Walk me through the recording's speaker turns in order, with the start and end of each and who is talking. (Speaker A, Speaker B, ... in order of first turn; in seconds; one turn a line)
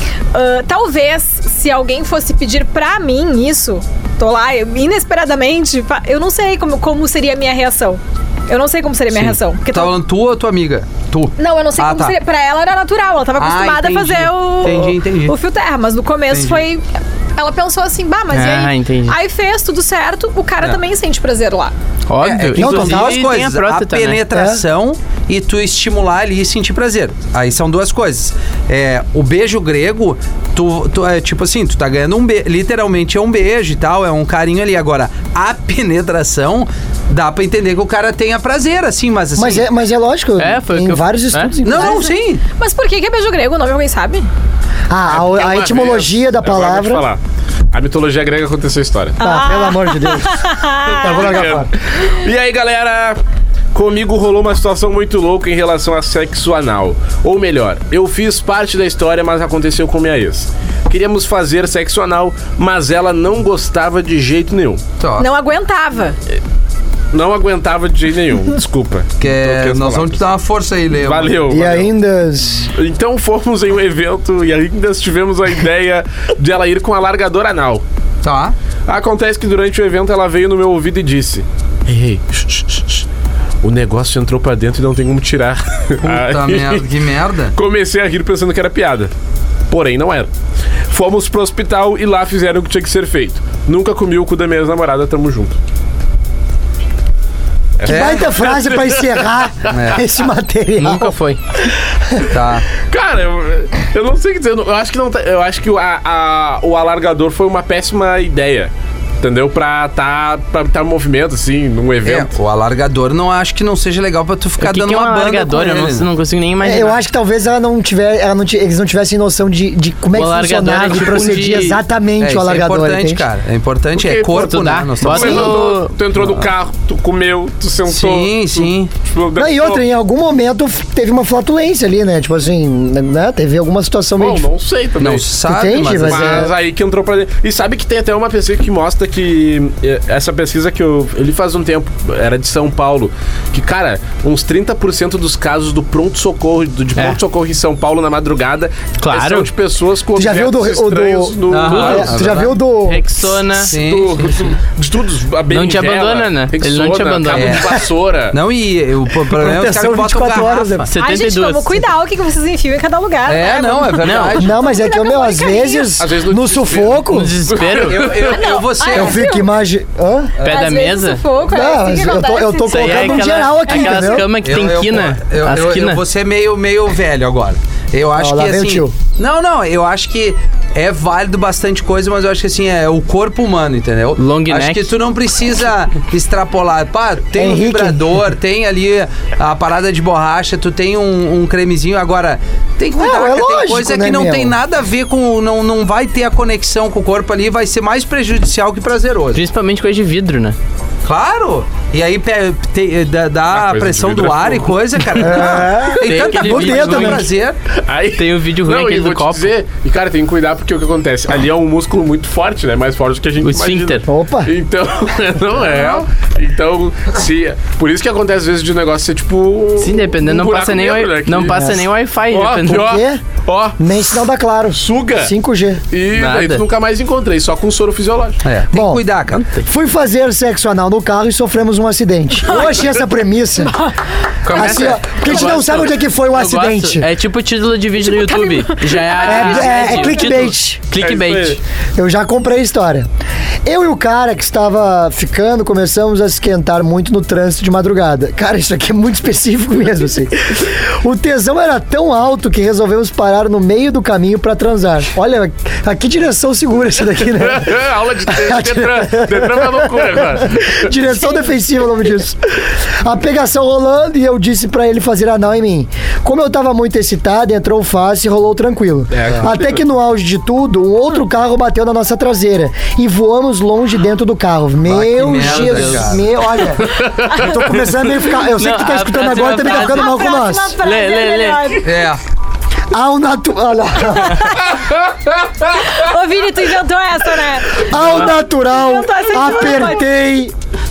Speaker A: 0.3-10.0
Speaker B: 9.1-12.1
Speaker A: 11.4-21.7
Speaker B: 13.4-15.3
Speaker B: 16.3-16.6
Speaker C: 18.3-19.1
Speaker C: 22.1-24.2
Speaker B: 22.2-39.7
Speaker D: 22.5-23.3
Speaker D: 24.3-24.6
Speaker D: 39.4-42.1
Speaker C: 40.4-41.5
Speaker B: 41.6-42.4
Speaker A: 41.7-44.3
Speaker D: 44.9-47.0
Speaker E: 45.1-47.2
Speaker E: 47.7-49.2
Speaker A: 49.2-51.2
Speaker D: 49.2-51.7
Speaker E: 50.9-53.2
Speaker E: 53.7-64.8
Speaker B: 65.0-65.3
Speaker A: 65.2-66.2
Speaker E: 67.1-70.2
Speaker B: 69.2-71.5
Speaker E: 70.9-71.9
Speaker D: 71.5-72.7
Speaker E: 72.7-77.8
Speaker B: 78.2-78.5
Speaker E: 78.9-83.0
Speaker E: 83.6-86.8
Speaker B: 86.0-87.5
Speaker E: 87.5-89.1
Speaker E: 89.7-90.3
Speaker E: 90.9-95.5
Speaker E: 97.8-99.7
Speaker D: 97.8-101.1
Speaker B: 97.9-98.3
Speaker B: 99.7-100.0
Speaker C: 100.8-101.4
Speaker D: 101.9-102.3
Speaker B: 102.3-102.7
Speaker E: 102.9-112.3
Speaker B: 112.0-116.1
Speaker C: 114.6-117.0
Speaker D: 116.6-123.2
Speaker C: 120.1-121.8
Speaker B: 122.2-125.6
Speaker E: 123.9-129.8
Speaker C: 124.3-126.0
Speaker B: 126.1-126.5
Speaker B: 127.9-128.9
Speaker D: 129.3-134.5
Speaker E: 134.2-152.4
Speaker B: 135.0-136.5
Speaker D: 135.5-136.5
Speaker C: 149.0-149.5
Speaker D: 150.2-153.1
Speaker B: 151.5-152.6
Speaker C: 151.6-153.7
Speaker B: 153.6-154.5
Speaker E: 153.6-158.4
Speaker C: 155.5-157.6
Speaker B: 157.3-157.8
Speaker B: 158.3-160.9
Speaker D: 159.3-160.9
Speaker C: 160.8-161.8
Speaker A: 160.9-165.9
Speaker B: 163.2-164.6
Speaker C: 164.0-164.3
Speaker D: 164.3-167.3
Speaker E: 166.0-168.5
Speaker C: 167.1-168.1
Speaker B: 167.7-169.2
Speaker A: 168.2-169.5
Speaker D: 168.9-170.3
Speaker B: 170.4-170.7
Speaker C: 170.4-171.2
Speaker A: 170.4-174.2
Speaker D: 171.4-174.3
Speaker C: 172.7-176.0
Speaker B: 174.4-199.4
Speaker D: 178.1-178.9
Speaker C: 184.2-184.9
Speaker D: 187.3-188.1
Speaker D: 192.9-194.6
Speaker C: 199.3-200.6
Speaker B: 201.0-207.6
Speaker E: 203.5-205.3
Speaker D: 205.2-207.3
Speaker C: 206.0-207.2
Speaker E: 207.8-221.8
Speaker C: 208.2-209.5
Speaker C: 213.4-214.0
Speaker D: 214.1-214.5
Speaker C: 219.8-222.9
Speaker D: 221.5-221.8
Speaker E: 222.3-223.8
Speaker D: 222.7-223.2
Speaker D: 223.8-225.8
Speaker E: 224.8-225.3
Speaker E: 225.9-228.4
Speaker C: 226.1-226.6
Speaker B: 228.4-229.4
Speaker D: 228.7-229.0
Speaker C: 229.3-229.6
Speaker D: 229.6-233.7
Speaker A: 232.4-232.9
Speaker A: 233.6-234.0
Speaker C: 234.4-241.6
Speaker D: 234.5-237.1
Speaker A: 238.0-240.4
Speaker D: 239.2-240.8
Speaker E: 241.0-241.6
Speaker D: 241.9-243.1
Speaker D: 243.6-280.8
Speaker E: 257.3-260.9
Speaker E: 269.1-269.8
Speaker B: 274.9-276.2
Speaker C: 275.4-276.0
Speaker E: 276.8-277.7
Speaker A: 277.3-277.6
Speaker C: 278.5-280.2
Speaker A: 279.4-281.9
Speaker C: 280.8-281.8
Speaker B: 281.8-282.2
Speaker D: 282.9-284.6
Speaker A: 284.3-284.7
Speaker E: 284.7-285.8
Speaker A: 285.7-287.9
Speaker D: 287.7-290.5
Speaker A: 288.6-290.1